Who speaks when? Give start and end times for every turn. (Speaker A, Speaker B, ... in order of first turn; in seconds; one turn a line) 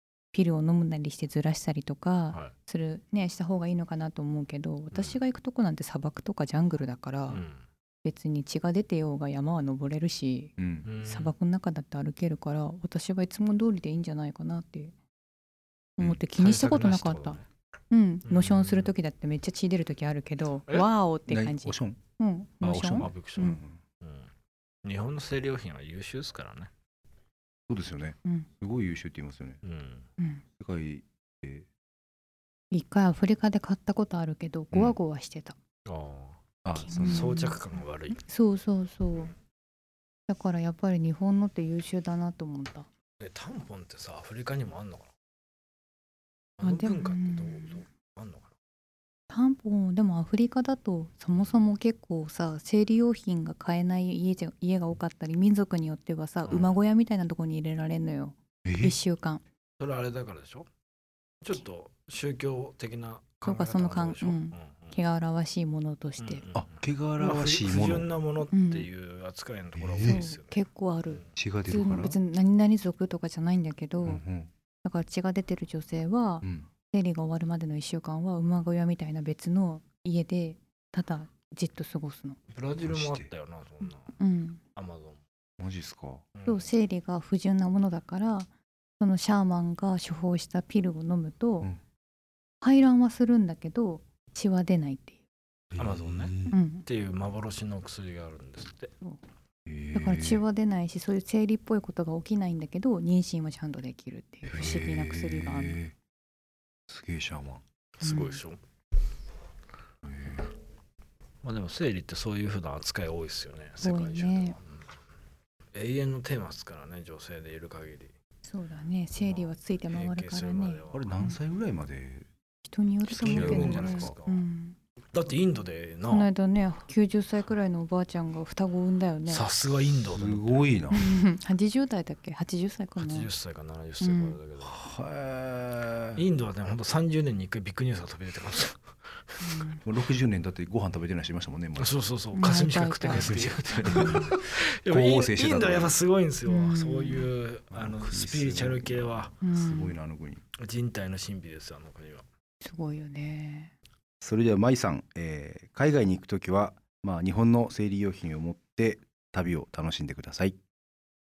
Speaker A: 0.3-7.4
Speaker B: 4.9-5.2
Speaker B: 7.3-7.6
Speaker A: 8.1-14.9
Speaker C: 10.6-10.9
Speaker B: 10.8-11.3
Speaker A: 16.0-17.4
Speaker B: 16.3-17.5
Speaker A: 17.9-23.6
Speaker B: 18.3-18.9
Speaker C: 21.3-22.0
Speaker B: 22.6-24.3
Speaker C: 22.8-23.8
Speaker B: 24.8-26.7
Speaker C: 27.7-29.6
Speaker B: 29.6-30.1
Speaker A: 30.2-30.4
Speaker C: 30.6-31.7
Speaker A: 32.7-35.6
Speaker C: 34.7-35.0
Speaker B: 35.9-36.4
Speaker C: 36.6-37.4
Speaker A: 36.8-37.6
Speaker B: 36.9-38.2
Speaker A: 38.1-39.3
Speaker A: 40.3-42.9
Speaker B: 43.2-45.1
Speaker B: 46.6-48.5
Speaker A: 46.6-47.8
Speaker A: 49.3-59.4
Speaker B: 56.5-56.8
Speaker C: 58.6-59.0
Speaker B: 59.8-60.7
Speaker B: 61.4-65.0
Speaker A: 63.4-66.5
Speaker B: 66.2-70.6
Speaker C: 66.5-68.1
Speaker A: 68.5-68.9
Speaker C: 69.8-70.3
Speaker A: 70.0-74.2
Speaker C: 71.3-72.2
Speaker C: 74.0-74.5
Speaker A: 74.8-82.4
Speaker C: 76.4-76.7
Speaker B: 82.5-84.2
Speaker C: 82.8-83.3
Speaker A: 84.2-84.6
Speaker B: 84.8-85.2
Speaker C: 85.6-86.2
Speaker B: 86.3-86.7
Speaker A: 86.5-91.7
Speaker A: 92.6-95.2
Speaker C: 95.7-96.5
Speaker B: 95.8-98.9
Speaker A: 96.5-96.9
Speaker C: 99.7-100.4
Speaker A: 99.9-105.8
Speaker C: 104.5-106.0
Speaker C: 106.9-107.6
Speaker B: 108.0-108.6
Speaker A: 108.0-108.4
Speaker C: 110.0-110.5
Speaker B: 111.4-114.8
Speaker A: 113.8-114.6
Speaker B: 115.7-118.1
Speaker A: 118.5-120.8
Speaker B: 119.2-121.2
Speaker C: 120.9-122.3
Speaker A: 122.7-124.8
Speaker B: 123.1-124.5
Speaker C: 123.2-124.2
Speaker B: 125.1-126.3
Speaker A: 126.1-129.4
Speaker B: 129.3-130.6
Speaker C: 130.1-131.0
Speaker A: 130.9-133.3
Speaker B: 133.0-134.8
Speaker A: 134.0-134.4
Speaker C: 134.6-136.2
Speaker B: 136.2-138.8
Speaker B: 139.4-139.7
Speaker A: 139.4-139.8
Speaker C: 139.8-142.0
Speaker B: 141.8-149.4
Speaker A: 142.3-144.3
Speaker C: 143.1-146.0
Speaker A: 146.5-147.3
Speaker C: 147.7-150.4
Speaker A: 149.4-150.0
Speaker B: 150.6-152.2
Speaker A: 152.6-153.7
Speaker C: 154.2-160.6